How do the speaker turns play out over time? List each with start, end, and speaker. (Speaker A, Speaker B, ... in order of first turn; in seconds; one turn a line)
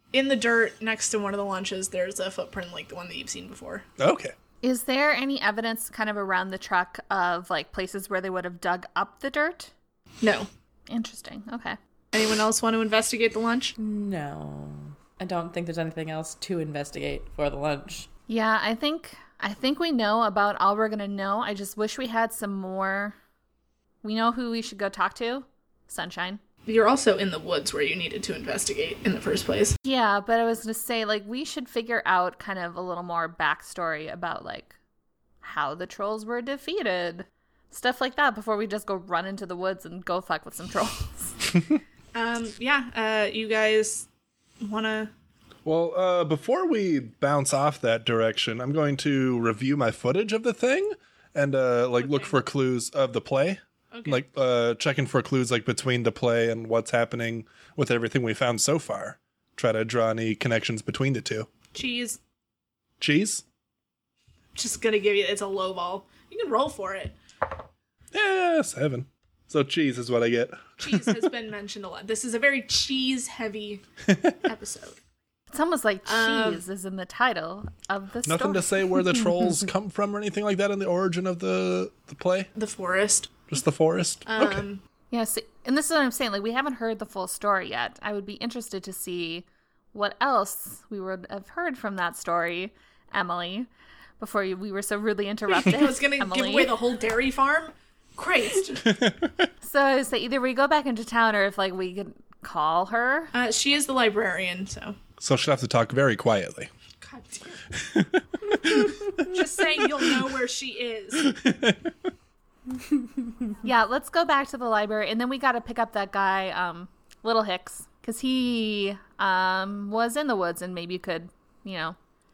Speaker A: 0.1-3.9
Speaker B: 4.0-4.3
Speaker C: 4.6-9.7
Speaker A: 10.2-10.5
Speaker C: 10.9-11.8
Speaker A: 12.1-13.7
Speaker D: 13.8-18.1
Speaker C: 18.3-23.1
Speaker C: 24.0-26.4
Speaker A: 26.6-29.8
Speaker C: 29.8-34.8
Speaker C: 35.4-41.4
Speaker A: 42.1-44.1
Speaker A: 44.6-45.1
Speaker B: 45.6-61.5
Speaker A: 52.0-52.4
Speaker A: 53.9-54.2
Speaker A: 61.7-62.2
Speaker B: 63.0-63.4
Speaker A: 64.5-67.2
Speaker B: 68.1-71.3
Speaker A: 70.8-73.8
Speaker A: 74.4-75.0
Speaker C: 75.5-78.9
Speaker A: 76.0-76.6
Speaker B: 78.2-82.5
Speaker A: 82.5-83.4
Speaker B: 83.5-84.6
Speaker A: 84.3-84.8
Speaker C: 85.1-93.7
Speaker C: 94.2-96.7
Speaker A: 95.5-99.0
Speaker B: 98.9-99.5
Speaker C: 99.6-103.3
Speaker A: 103.3-105.0
Speaker B: 105.2-106.7
Speaker A: 107.0-107.7
Speaker B: 107.8-109.3
Speaker A: 109.0-111.3
Speaker B: 109.8-110.1
Speaker B: 111.2-111.9
Speaker C: 113.6-122.0